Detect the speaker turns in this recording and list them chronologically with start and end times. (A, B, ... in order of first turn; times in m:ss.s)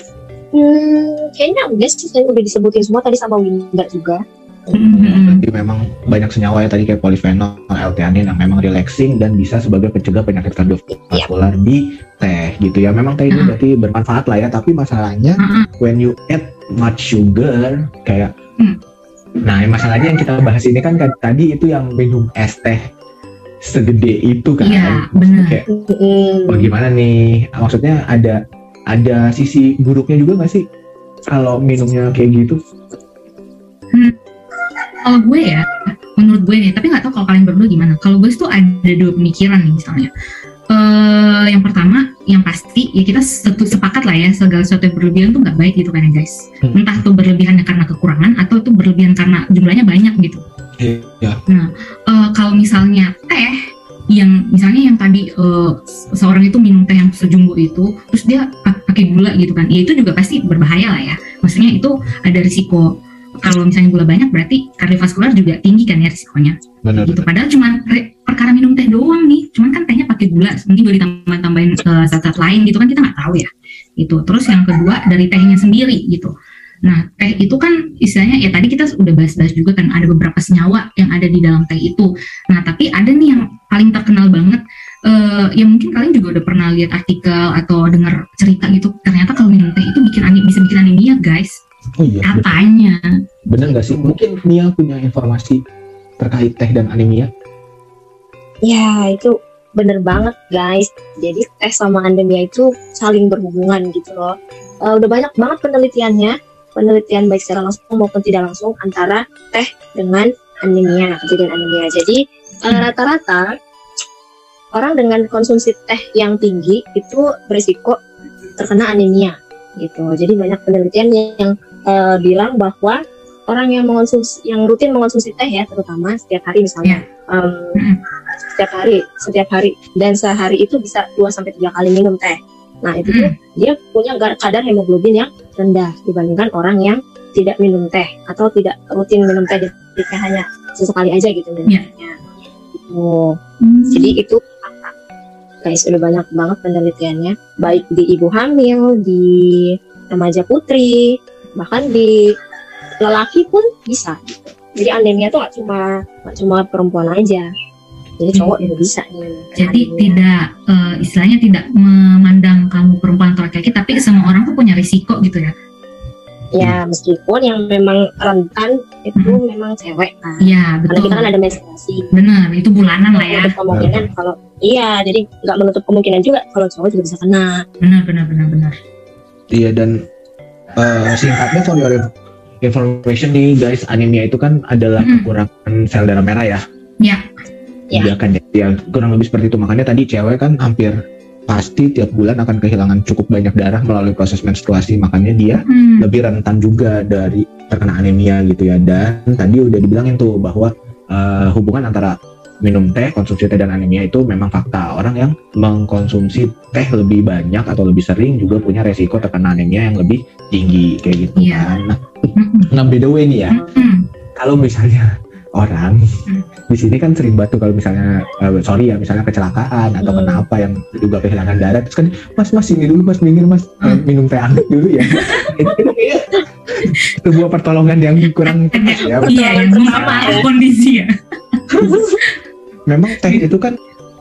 0:00.5-0:04.7 A
0:04.7-0:05.4 B
0:04.9-0:18.3 C
0:13.3-0:13.6 B
0:15.4-0:15.7 B
0:19.4-0:22.8 C
0:23.6-0:25.6 C
0:24.6-0:25.6 B
0:25.7-0:26.7 A
0:26.5-0:28.4 C
0:28.9-0:30.6 C
0:31.3-0:32.6 C
0:35.0-0:40.1 B
0:40.7-0:50.4 B
0:46.6-0:47.0 C
0:50.8-0:51.4 C
0:51.5-0:53.6 B
0:54.1-1:16.3 B
1:06.8-1:07.3 C
1:16.8-1:31.6 B
1:32.0-1:32.6 C
1:32.3-1:33.0 B
1:33.5-1:35.6 C
1:36.2-1:37.3 C
1:38.6-1:53.5 A
1:54.7-1:58.0 A
1:58.6-2:07.8 A
2:08.5-2:23.3 A
2:13.0-2:13.3 B
2:23.6-2:24.2 B
2:23.9-2:24.9 A
2:25.6-2:32.1 A
2:33.0-2:37.5 A
2:38.2-2:40.2 A
2:38.3-2:38.7 B
2:39.6-2:45.5 B
2:46.5-2:52.1 A
2:50.4-2:51.3 B
2:52.1-2:53.5 B
2:53.1-2:57.5 A
2:53.7-2:54.1 C
2:57.8-2:58.8 B
2:59.5-3:00.0 C
3:00.8-3:02.1 C
3:02.6-3:06.6 C
3:05.0-3:05.3 B
3:07.9-3:11.0 C
3:11.5-3:33.6 C
3:15.6-3:16.1 B
3:31.4-3:31.7 B
3:32.4-3:32.7 B
3:33.5-3:34.0 B
3:34.4-3:36.0 C
3:36.7-3:50.4 C
3:40.0-3:40.4 A
3:45.1-3:45.7 B
3:48.4-3:52.4 B
3:49.0-3:50.4 A
3:52.8-3:53.8 C